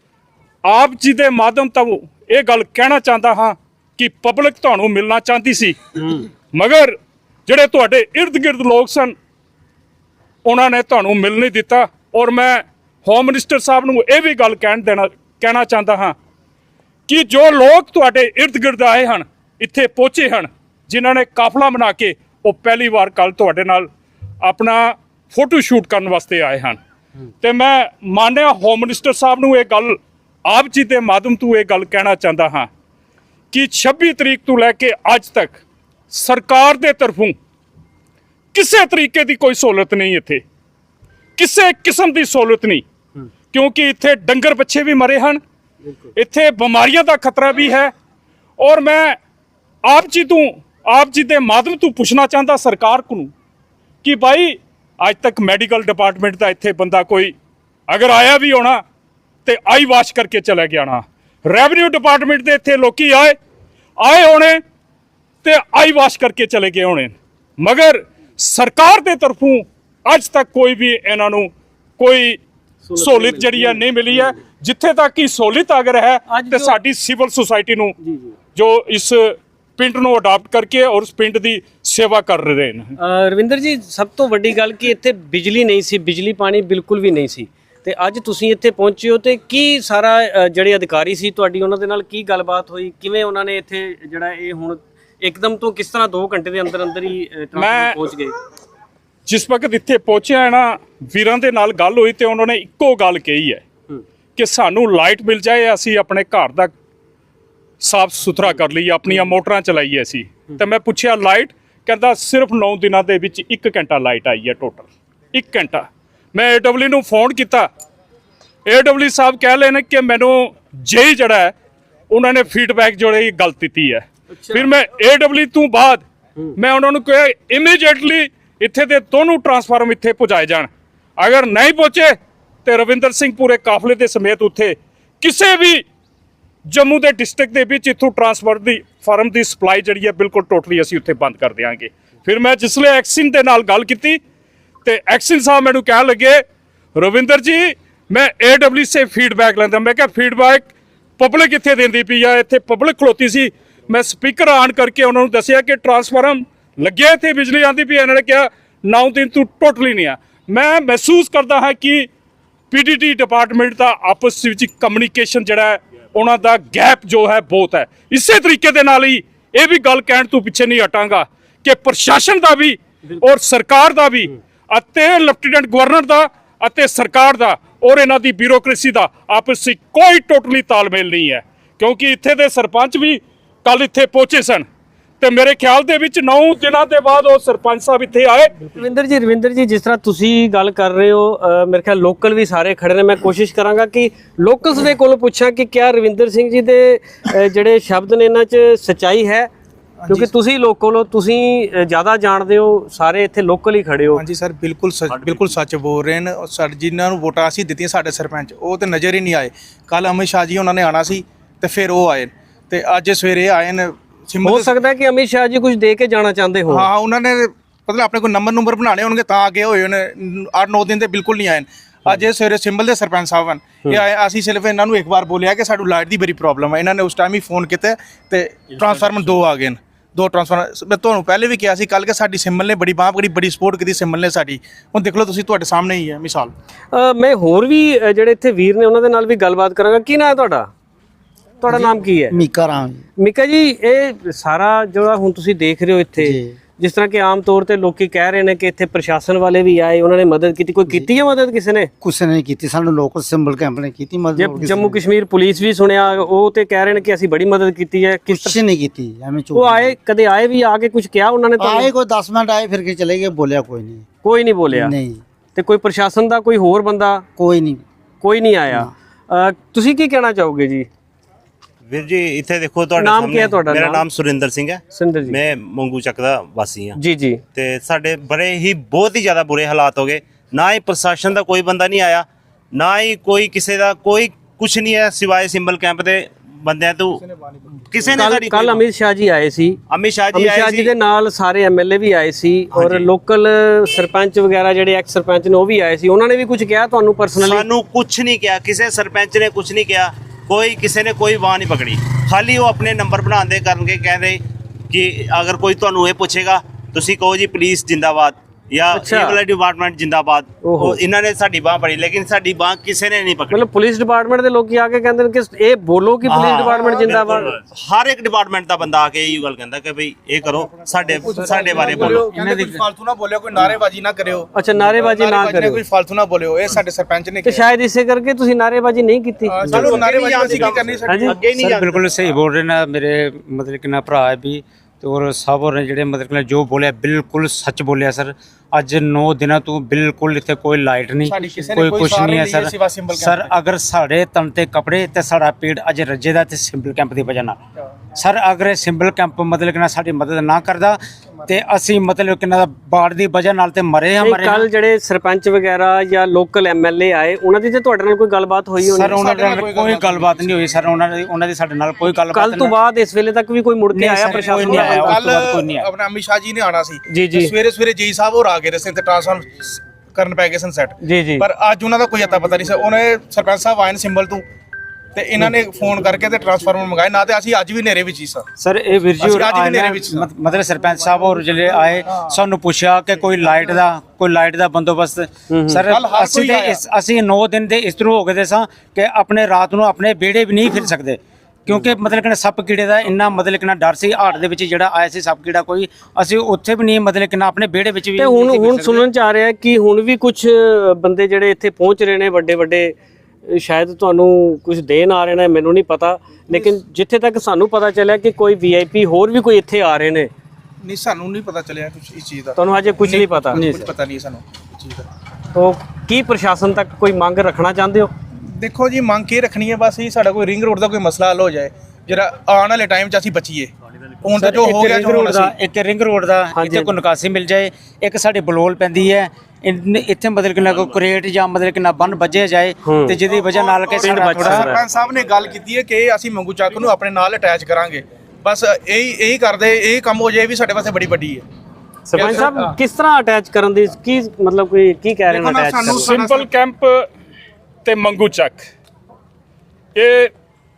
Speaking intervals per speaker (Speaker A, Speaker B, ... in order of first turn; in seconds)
Speaker A: 0.7-9.1, 10.4-16.1, 17.1-23.9, 24.4-26.8, 27.4-32.7, 33.5-37.4, 38.5-40.4, 41.4-42.8, 43.5-45.4, 46.1-47.9, 48.6-49.2, 49.8-53.3, 54.0-57.3, 57.9-58.8, 59.4-63.4, 64.0-64.6, 65.4-72.4, 73.0-77.9, 78.5-82.9, 97.6-98.0, 99.2-103.6, 104.3-106.7, 107.8-117.7, 118.7-121.5, 122.1-126.0, 126.5-135.8, 136.7-144.2, 144.8-146.4, 146.9-162.1, 162.7-184.6, 185.2-188.6, 445.9-447.1, 447.8-448.7, 449.9-450.3
Speaker B: 72.8-74.2, 76.3-76.8, 78.0-78.3, 83.0-98.3, 188.7-199.5, 200.1-204.2, 214.4-216.9, 236.9-240.7, 241.6-242.4, 243.2-251.9, 254.4-258.6, 259.5-261.9, 264.2-265.0, 265.5-267.2, 268.2-270.9, 273.0-274.0, 274.9-275.4, 277.0-277.4, 288.1-289.8, 290.3-297.6, 308.9-309.4, 310.6-311.0, 313.5-317.5, 324.5-325.8, 327.4-331.4, 354.2-359.2, 362.3-365.2, 367.1-367.5, 371.0-371.4, 385.5-385.8, 398.1-402.9, 403.5-410.3, 412.6-413.7, 415.5-418.1, 426.5-426.9, 432.9-433.2, 434.0-434.8, 442.1-446.2
Speaker C: 200.0-200.3, 204.1-214.7, 216.7-236.5, 287.2-288.2, 316.6-317.5, 321.2-327.6, 329.5-331.4, 341.3-343.5, 359.0-360.4, 364.3-374.4, 375.1-378.4, 379.2-380.3, 385.9-386.8, 410.8-415.1, 418.6-423.7, 424.2-425.5, 433.4-441.4, 442.1-442.7, 445.3-446.5
Speaker D: 241.7-243.0, 246.2-246.5, 252.0-254.9, 258.4-259.9, 261.6-264.0, 264.7-265.2, 267.4-267.8
Speaker E: 258.3-258.7, 259.4-259.7, 321.7-322.8, 331.6-347.6, 348.1-354.7, 358.8-362.7, 363.9-365.9, 378.6-399.1, 424.3-434.8
Speaker F: 271.9-277.0, 277.5-287.2, 287.9-288.7, 289.9-290.9, 297.4-313.6, 316.5-322.2, 329.7-332.0